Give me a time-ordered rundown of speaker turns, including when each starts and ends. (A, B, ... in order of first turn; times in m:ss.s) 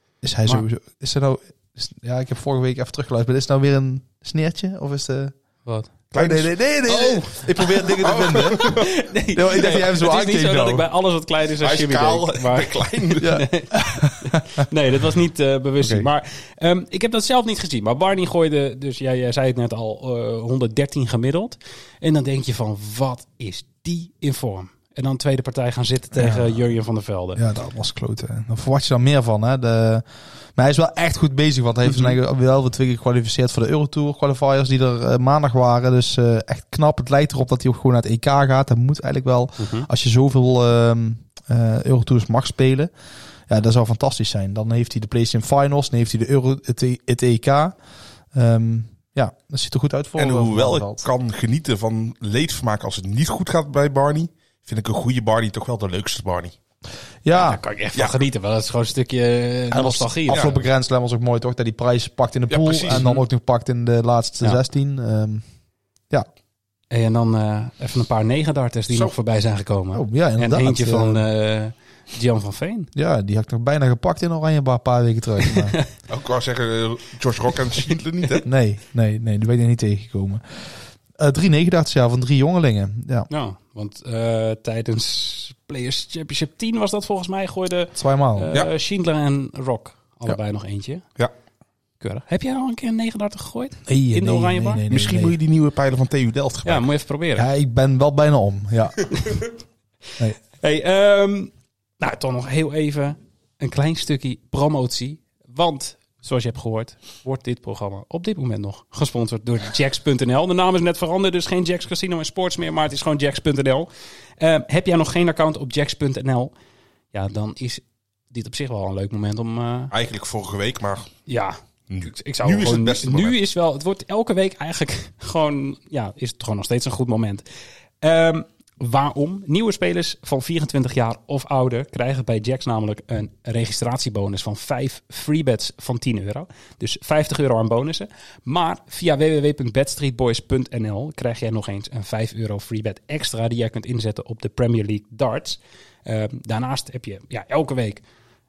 0:00.2-0:05.4 A
0:05.6-0:05.9 B
0:06.1-0:08.9 C
0:06.1-0:10.9 A
0:08.6-0:27.4 B
0:11.6-0:13.3 C
0:13.2-0:14.2 A
0:15.8-0:16.1 A
0:26.1-0:26.6 A
0:27.4-0:42.9 A
0:39.6-0:39.9 B
0:43.5-0:47.8 A
0:48.3-0:51.1 A
0:50.2-0:56.6 C
0:57.2-0:57.6 A
0:57.3-1:00.6 B
0:59.7-1:05.4 A
1:02.5-1:03.2 C
1:06.9-1:12.9 B
1:09.9-1:11.3 A
1:13.0-1:15.8 A
1:15.5-1:15.9 B
1:16.1-1:18.5 C
1:18.4-1:23.3 A
1:23.3-1:31.0 B
1:28.0-1:28.5 A
1:32.0-1:34.8 B
1:33.9-1:35.4 A
1:34.9-1:36.9 C
1:36.6-1:37.5 B
1:37.4-1:39.1 A
1:40.6-1:53.9 B
1:54.4-1:56.5 B
1:57.1-1:59.9 B
1:59.9-2:01.1 C
2:01.3-2:07.4 B
2:01.9-2:03.4 C
2:08.0-2:28.0 B